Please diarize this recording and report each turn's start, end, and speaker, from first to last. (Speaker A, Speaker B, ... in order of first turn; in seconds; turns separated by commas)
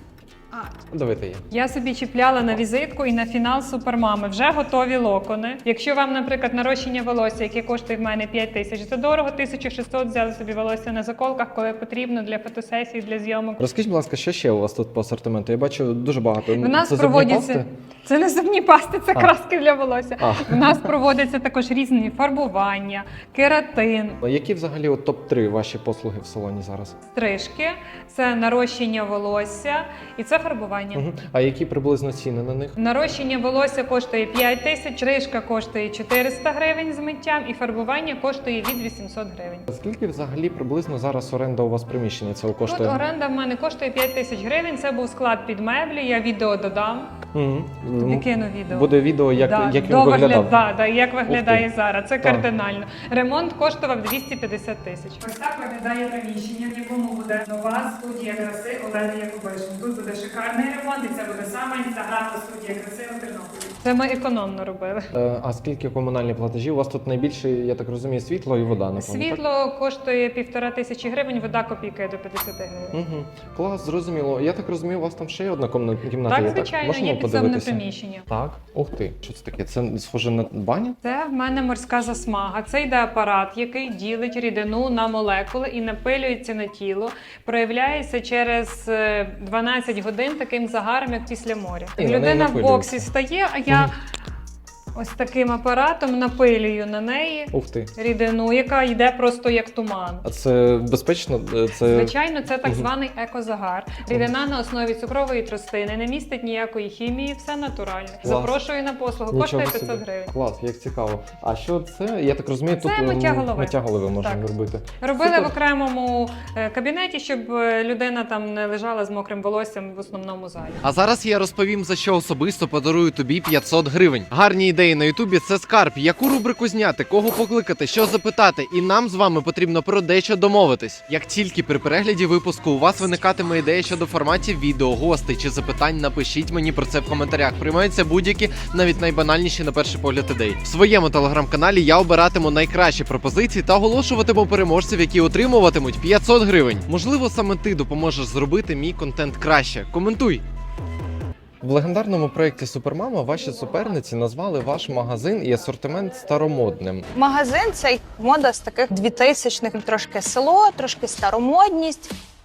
Speaker A: 0.8-1.4, Speaker B: 1.5-13.6, Speaker A: 13.6-17.7, Speaker B: 16.6-24.2, Speaker A: 20.2-20.9, Speaker A: 24.2-27.0, Speaker B: 27.1-31.1, Speaker A: 30.9-32.8, Speaker B: 32.8-39.7, Speaker A: 39.7-43.0, Speaker B: 42.7-47.1, Speaker A: 47.3-50.6, Speaker B: 48.0-65.1, Speaker A: 51.3-51.7, Speaker A: 52.2-52.5, Speaker A: 65.1-69.4, Speaker B: 69.0-73.0, Speaker A: 72.9-81.0, Speaker B: 76.3-78.3, Speaker B: 81.0-93.9, Speaker A: 92.0-93.1, Speaker B: 94.9-100.2, Speaker A: 97.5-97.9, Speaker A: 100.2-102.1, Speaker B: 101.8-110.3, Speaker A: 108.2-108.6, Speaker A: 109.3-115.5, Speaker B: 112.8-114.5, Speaker B: 115.0-120.8, Speaker A: 120.8-150.4, Speaker A: 151.6-157.1, Speaker C: 157.1-162.1